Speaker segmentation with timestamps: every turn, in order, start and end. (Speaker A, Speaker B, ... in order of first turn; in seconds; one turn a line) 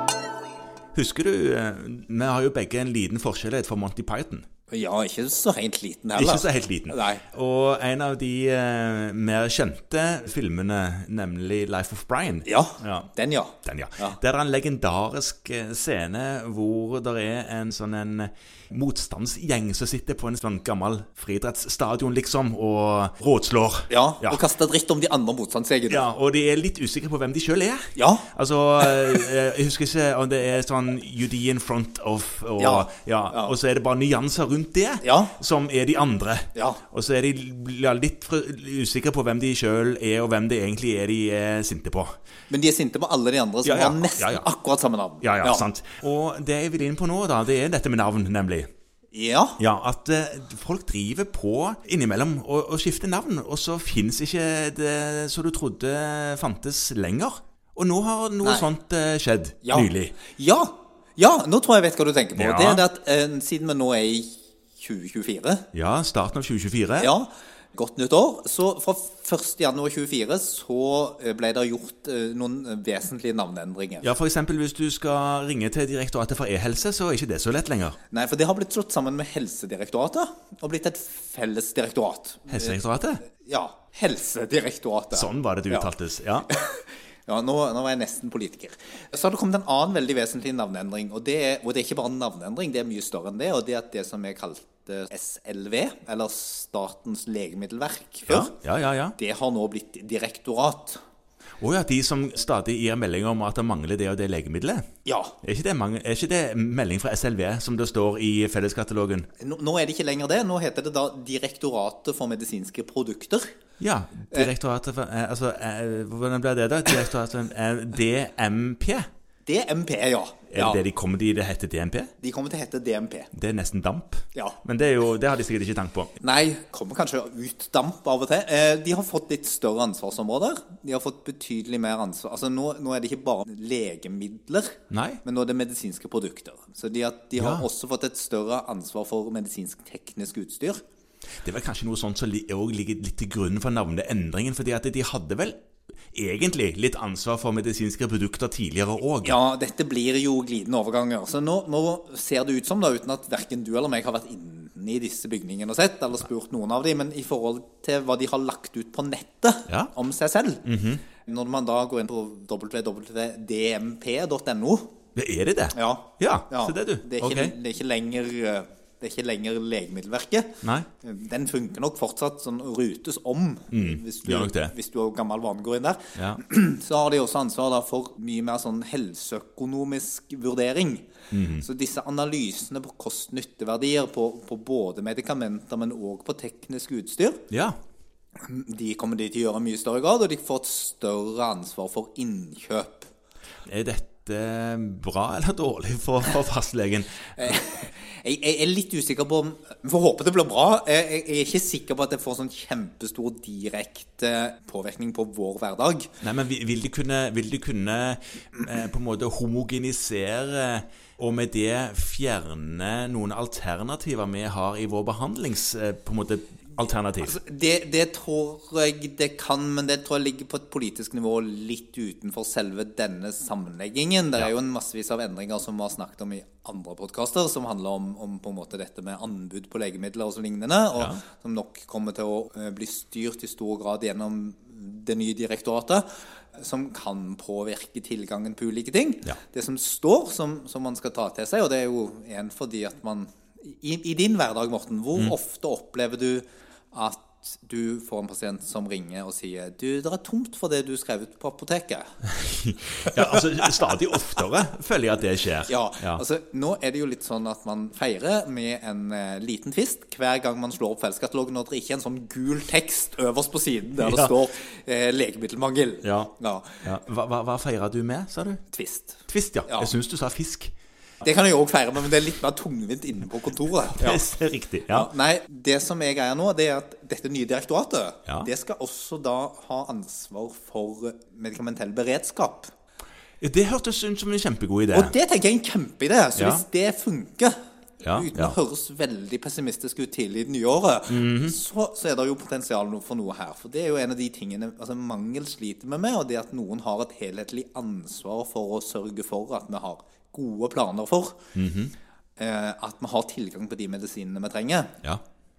Speaker A: 0.9-4.4
Speaker B: 4.7-7.2
Speaker A: 6.1-13.1
Speaker B: 12.4-14.2
Speaker A: 13.6-24.4
Speaker B: 23.9-26.1
Speaker A: 25.9-42.1
Speaker B: 27.9-28.3
Speaker B: 32.6-33.5
Speaker B: 35.0-35.3
Speaker B: 36.5-36.8
Speaker B: 42.5-45.6
Speaker A: 43.6-44.5
Speaker A: 45.2-48.7
Speaker B: 49.1-49.6
Speaker A: 49.6-60.2
Speaker B: 58.4-58.7
Speaker B: 59.6-65.7
Speaker A: 62.4-62.8
Speaker A: 65.7-67.1
Speaker B: 67.0-74.1
Speaker A: 74.0-78.0
Speaker B: 78.1-82.8
Speaker A: 82.5-83.2
Speaker B: 83.3-85.9
Speaker A: 85.1-86.5
Speaker B: 86.5-98.5
Speaker A: 98.3-99.2
Speaker B: 99.1-101.0
Speaker A: 101.6-104.8
Speaker B: 105.0-105.3
Speaker A: 105.4-109.3
Speaker B: 109.4-113.5
Speaker A: 113.8-119.1
Speaker B: 119.4-120.8
Speaker A: 120.5-122.1
Speaker B: 122.2-123.3
Speaker A: 123.3-126.1
Speaker B: 126.2-140.8
Speaker A: 134.9-135.2
Speaker A: 137.3-137.7
Speaker A: 141.4-149.4
Speaker B: 149.2-160.6
Speaker A: 160.6-161.0
Speaker B: 161.2-164.9
Speaker A: 165.1-167.5
Speaker B: 165.7-181.1
Speaker A: 170.6-170.9
Speaker A: 173.7-174.7
Speaker A: 176.2-176.4
Speaker A: 181.3-181.6
Speaker B: 181.6-187.4
Speaker A: 187.5-187.8
Speaker B: 188.4-193.1
Speaker A: 193.7-197.6
Speaker B: 197.4-206.1
Speaker A: 206.2-217.3
Speaker B: 217.2-252.1
Speaker A: 230.9-231.2
Speaker A: 252.3-256.2
Speaker B: 253.2-253.7
Speaker B: 255.7-267.0
Speaker A: 264.0-264.3
Speaker A: 266.0-268.6
Speaker B: 268.7-269.9
Speaker A: 269.3-270.7
Speaker B: 271.2-274.3
Speaker A: 273.9-275.1
Speaker B: 274.9-282.7
Speaker A: 283.4-285.1
Speaker B: 284.9-287.6
Speaker A: 286.4-286.6
Speaker A: 288.0-288.5
Speaker B: 288.1-301.4
Speaker A: 291.1-291.6
Speaker A: 301.5-301.9
Speaker B: 302.4-304.9